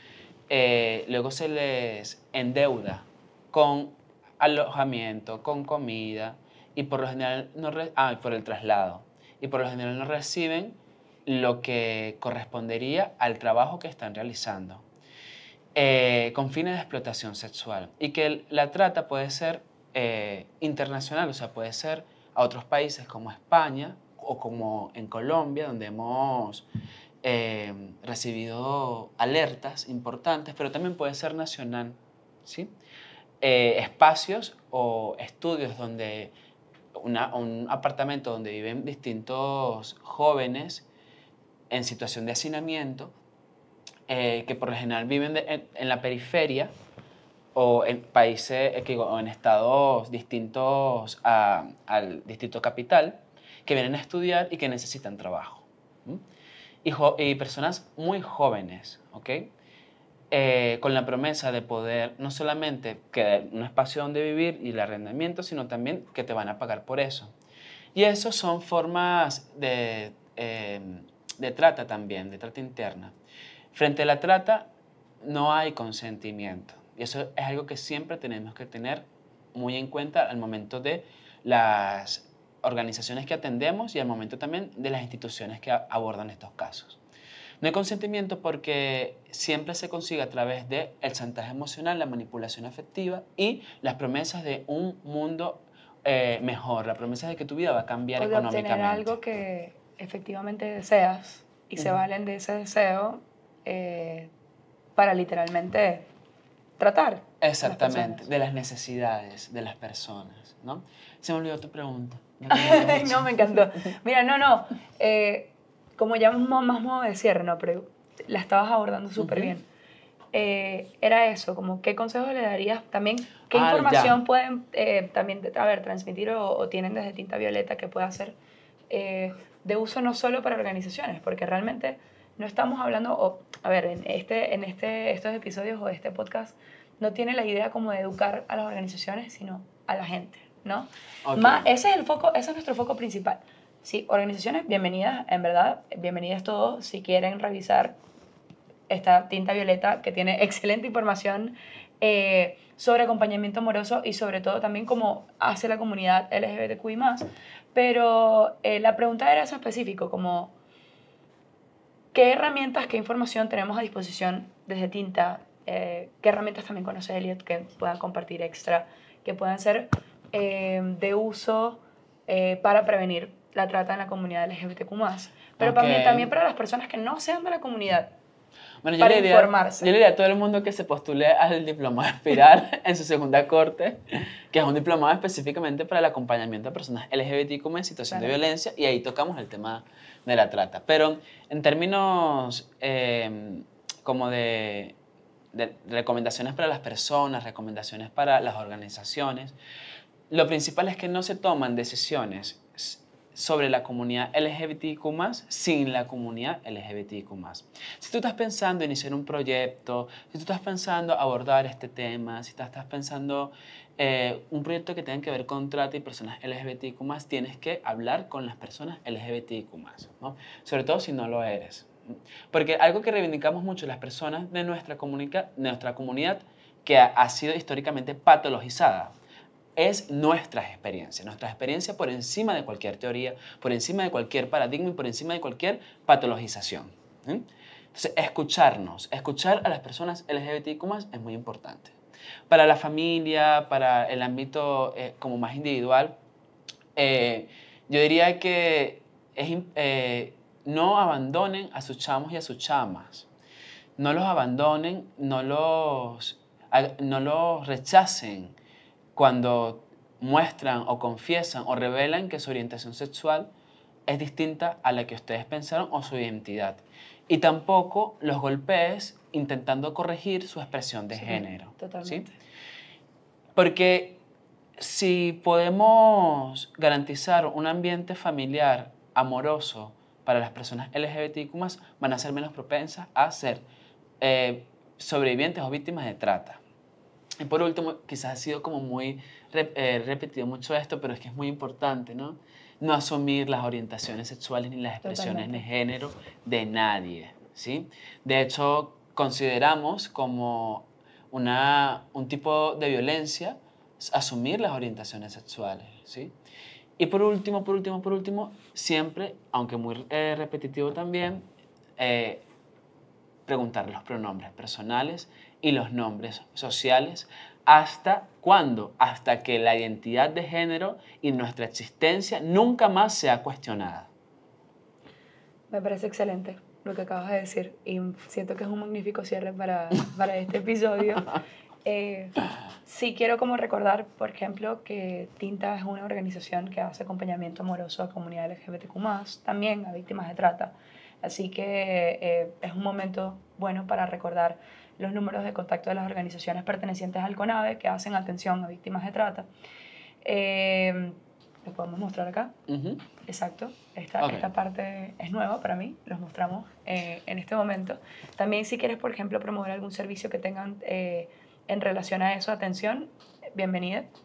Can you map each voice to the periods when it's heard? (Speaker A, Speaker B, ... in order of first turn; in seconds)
Speaker A: 0.5-14.8, 15.7-26.6, 27.2-32.7, 33.4-36.3, 36.9-40.9, 41.7-43.1, 44.1-46.7, 47.5-56.2, 56.8-59.5, 60.3-67.3, 67.9-73.1, 73.7-74.7, 75.2-87.0, 87.6-99.1, 107.4-113.5, 119.2-119.5, 123.5-124.2, 141.2-141.7, 175.6-176.3, 178.8-195.0, 195.5-199.6, 200.3-221.9, 222.5-229.1, 229.8-241.9, 242.5-246.2, 246.9-253.3, 254.0-258.6, 259.1-263.5, 264.1-272.3, 273.5-274.2, 274.8-283.6, 284.2-286.6, 287.4-306.3, 307.0-312.4, 313.4-324.1, 352.7-353.0, 354.2-354.5
Speaker B: 98.2-104.3, 105.0-106.1, 106.8-108.2, 112.5-119.7, 120.3-128.4, 128.9-147.9, 148.9-160.5, 162.1-178.1, 179.0-179.9, 188.1-188.3, 271.1-272.4, 295.0-295.6, 325.7-349.5, 350.2-352.5, 353.2-364.1